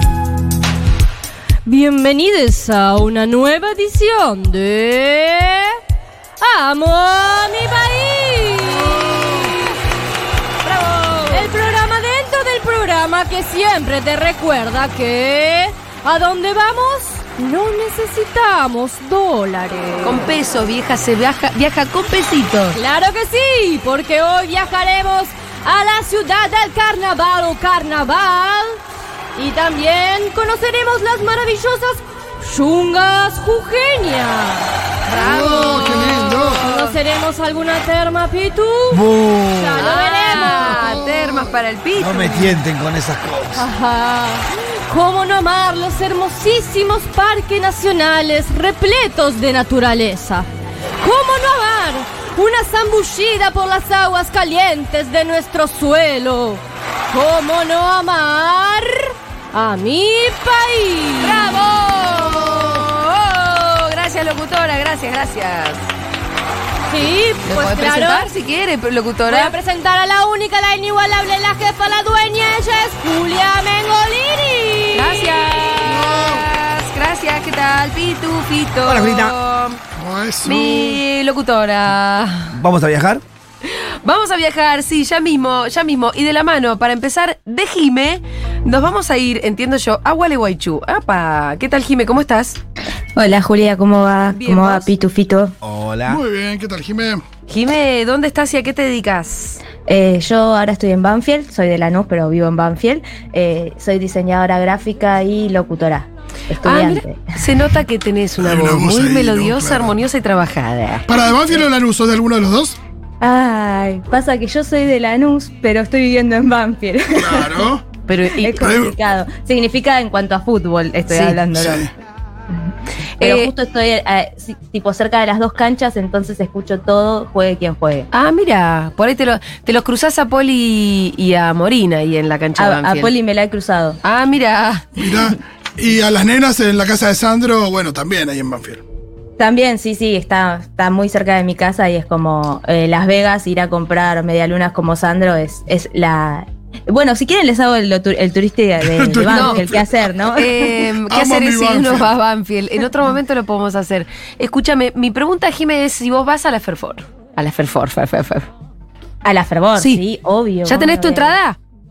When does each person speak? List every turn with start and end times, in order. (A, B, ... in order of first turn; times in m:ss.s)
0:01.6-0:05.8 A
0:06.4-0:09.8 A
0:10.6-0:11.5 B
0:11.3-0:20.4 A
0:20.0-0:22.8 B
0:22.7-0:28.8 A
0:29.4-0:39.0 A
0:35.1-0:36.6 C
0:35.5-0:37.0 B
0:38.9-0:40.0 D
0:39.5-0:40.9 A
0:39.8-0:42.6 B
0:40.5-0:41.5 C
0:42.0-0:43.7 D
0:43.6-0:50.5 A
0:51.0-1:02.4 A
1:01.2-1:05.9 B
1:06.9-1:08.3 A
1:07.4-1:09.6 B
1:09.3-1:16.0 A
1:15.0-1:19.8 B
1:15.8-1:16.5 C
1:18.8-1:19.4 D
1:20.0-1:21.0 C
1:20.4-1:22.6 B
1:22.5-1:23.2 D
1:23.6-1:32.6 B
1:33.2-1:35.6 E
1:34.3-1:34.9 B
1:35.6-1:36.2 D
1:36.1-1:37.2 C
1:37.5-1:39.6 B
1:39.9-1:47.4 E
1:46.6-1:51.1 B
1:48.4-1:50.0 C
1:51.1-1:52.8 C
1:53.2-1:57.7 E
1:57.2-1:57.9 C
1:58.1-1:58.7 B
1:58.3-2:01.9 E
1:58.6-1:59.0 C
2:01.1-2:01.4 B
2:01.5-2:01.9 C
2:03.2-2:03.5 B
2:03.2-2:08.1 E
2:08.1-2:13.1 B
2:12.6-2:14.0 E
2:14.0-2:15.1 B
2:15.0-2:18.8 C
2:19.4-2:30.6 E
2:28.8-2:30.1 C
2:29.3-2:29.6 B
2:30.4-2:38.5 B
2:31.1-2:32.1 C
2:39.2-2:41.4 E
2:39.8-2:40.0 B
2:40.7-2:41.6 B